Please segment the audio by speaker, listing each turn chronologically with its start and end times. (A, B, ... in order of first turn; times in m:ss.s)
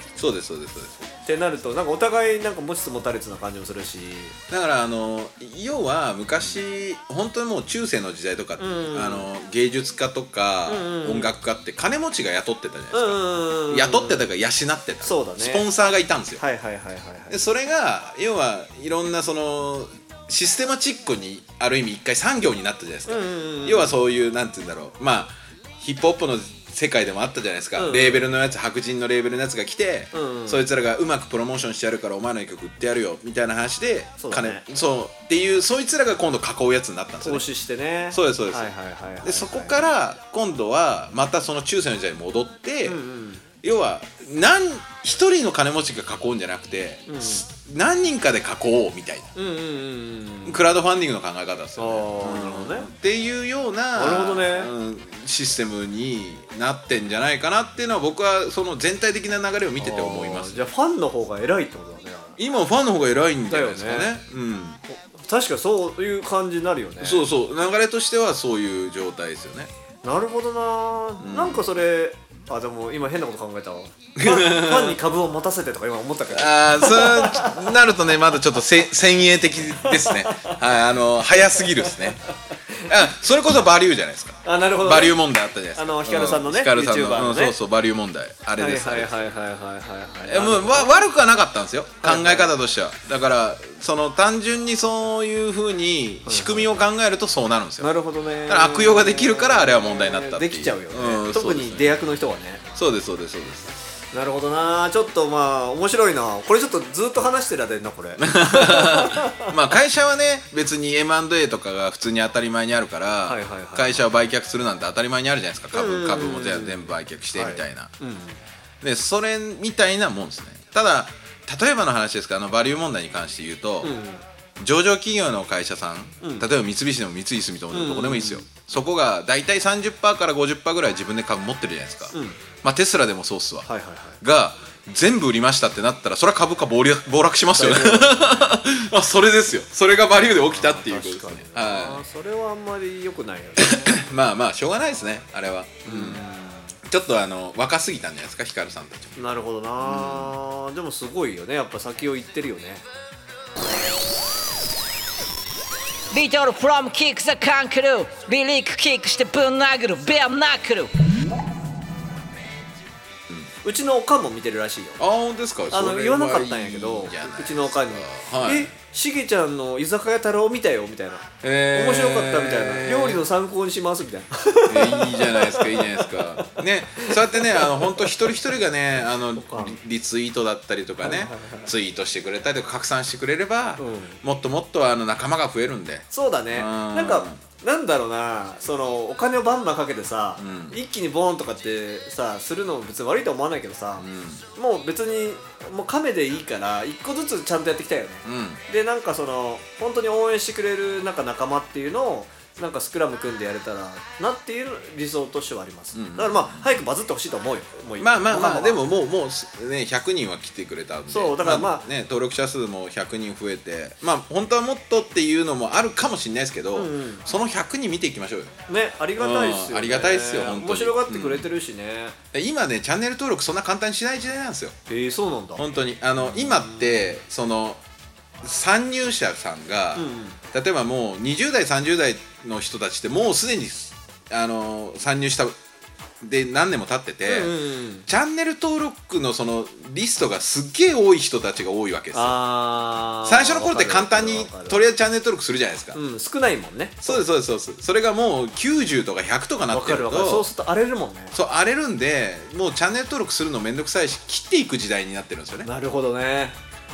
0:00.2-0:01.1 A
0:01.2-0:04.4 B
0:04.5-0:16.4 A
0:08.6-0:09.3 B
0:10.7-0:11.3 B
0:12.9-0:14.3 B
0:15.0-0:15.7 B
0:16.4-0:17.4 B
0:17.3-0:37.5 A
0:23.1-0:24.0 B
0:27.8-0:28.3 B
0:30.1-0:30.6 B
0:34.2-0:34.6 B
0:37.2-0:39.8 B
0:38.1-0:38.7 A
0:39.2-0:43.0 A
0:42.8-0:43.4 B
0:43.6-0:49.3 A
0:47.1-0:47.5 B
0:49.4-0:50.6 B
0:50.5-1:00.7 A
0:51.8-0:52.9 B
0:54.0-0:54.7 B
0:59.8-1:02.4 B
1:02.4-1:04.8 A
1:03.5-1:04.2 B
1:04.9-1:07.3 B
1:07.0-1:09.7 A
1:10.0-1:17.7 B
1:11.2-1:11.7 A
1:14.2-1:15.0 A
1:16.3-1:22.2 A
1:19.8-1:20.6 B
1:21.6-1:22.9 B
1:22.9-1:29.2 A
1:24.4-1:25.2 B
1:25.8-1:27.6 B
1:28.6-1:31.0 B
1:30.3-1:37.9 A
1:32.0-1:32.5 B
1:36.3-1:36.8 B
1:37.8-1:42.6 B
1:38.5-1:42.0 A
1:42.8-1:43.8 A
1:44.1-1:49.5 B
1:48.2-1:57.9 A
1:53.3-1:54.0 B
1:55.7-1:58.4 B
1:58.8-2:04.0 A
2:03.8-2:04.2 B
2:04.6-2:13.7 A
2:06.2-2:06.5 B
2:07.7-2:08.5 B
2:12.1-2:12.4 B
2:13.7-2:14.2 B
2:14.2-2:22.0 A
2:17.6-2:18.6 B
2:20.2-2:24.0 B
2:23.6-2:26.2 A
2:25.9-2:26.8 B
2:26.8-2:29.2 A
2:29.2-2:32.8 B
2:29.8-2:30.4 A
2:36.1-2:41.0 C
2:43.6-2:45.0 B
2:45.0-2:48.7 A
2:45.7-2:58.2 B
2:51.4-2:53.2 A
2:54.7-3:07.4 A
2:59.4-2:59.8 B
3:01.0-3:01.7 B
3:03.8-3:04.2 B
3:06.1-3:28.8 B
3:10.4-3:10.8 A
3:14.0-3:14.4 A
3:18.2-3:18.6 A
3:26.0-3:26.7 A
3:28.0-3:38.6 A
3:31.1-3:31.9 B
3:36.8-3:37.2 B
3:38.7-3:42.2 B
3:39.2-3:41.5 A
3:42.3-3:44.8 A
3:44.9-3:45.6 B
3:45.6-3:47.8 A
3:46.2-3:47.1 B
3:48.4-3:55.6 A
3:50.0-3:50.4 B
3:56.2-3:57.5 A
3:57.2-3:58.1 B
3:58.1-4:02.4 A
4:02.1-4:04.8 B
4:03.2-4:06.0 A
4:05.9-4:07.2 B
4:07.0-4:10.5 A
4:09.7-4:11.4 B
4:11.3-4:15.7 A
4:15.6-4:16.6 B